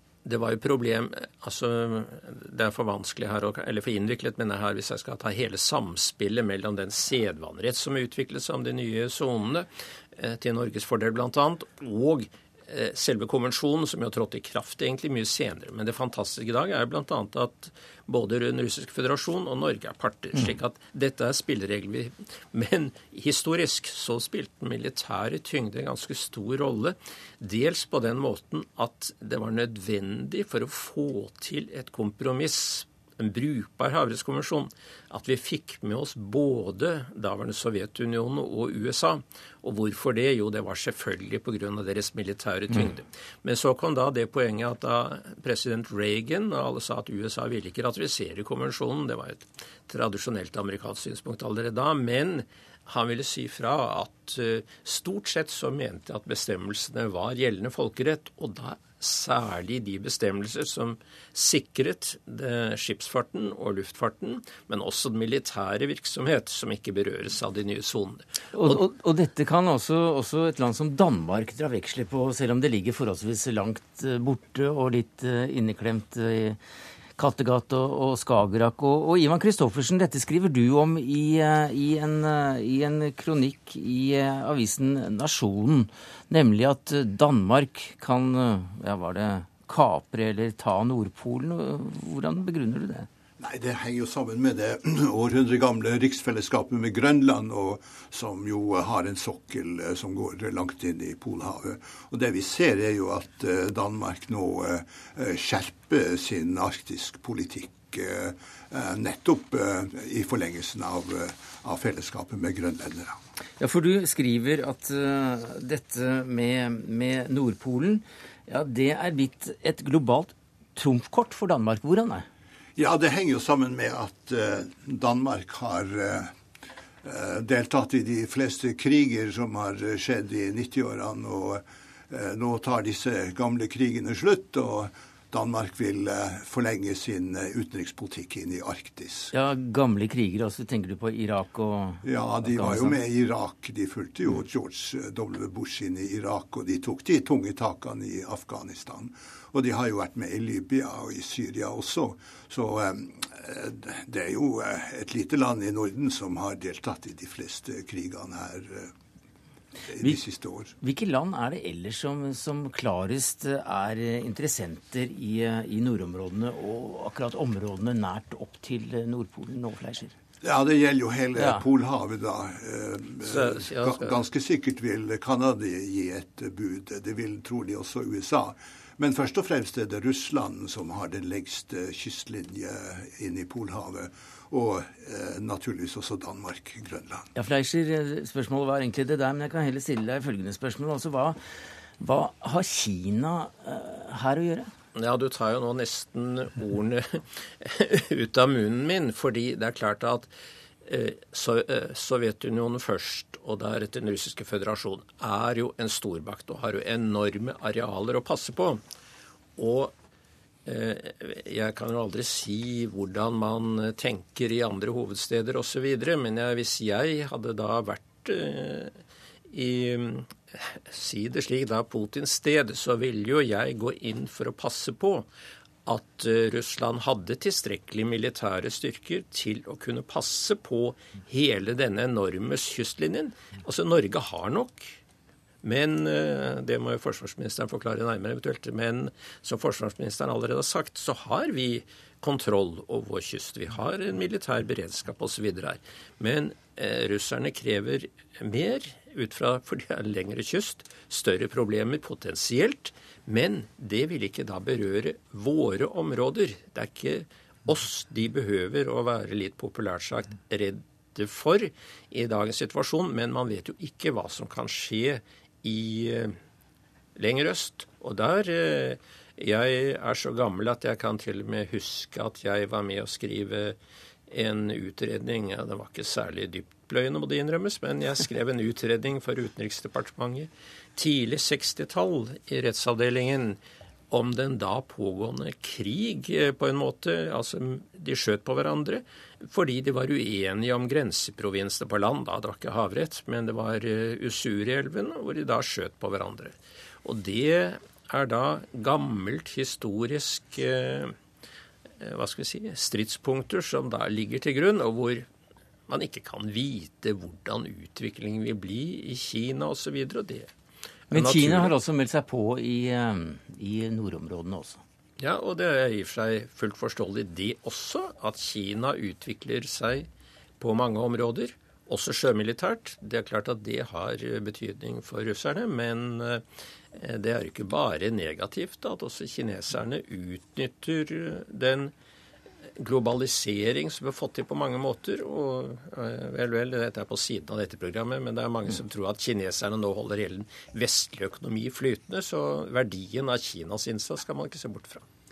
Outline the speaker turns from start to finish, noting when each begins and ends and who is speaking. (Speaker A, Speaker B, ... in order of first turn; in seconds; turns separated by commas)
Speaker A: 0.2-68.8, Speaker B: 68.5-76.6, Speaker B: 77.2-93.1, Speaker C: 93.4-113.2, Speaker B: 113.6-122.2, Speaker C: 122.8-126.3, Speaker C: 127.0-139.3, Speaker B: 139.3-143.0, Speaker C: 142.0-158.9, Speaker C: 159.9-160.7, Speaker B: 160.8-170.1, Speaker C: 170.4-187.3, Speaker B: 171.3-171.6, Speaker A: 173.2-174.2, Speaker B: 187.3-191.4, Speaker B: 192.0-194.7, Speaker A: 194.9-200.3, Speaker A: 200.8-208.8, Speaker A: 209.6-209.9, Speaker A: 210.7-219.0, Speaker A: 219.5-225.3, Speaker A: 225.8-235.0, Speaker A: 235.6-266.4, Speaker A: 267.1-273.8, Speaker A: 274.3-283.6, Speaker A: 284.1-301.1, Speaker A: 302.0-305.3, Speaker A: 305.9-310.5, Speaker A: 311.1-311.7, Speaker B: 311.1-314.8, Speaker A: 315.2-320.1, Speaker A: 320.6-331.9, Speaker A: 332.8-345.0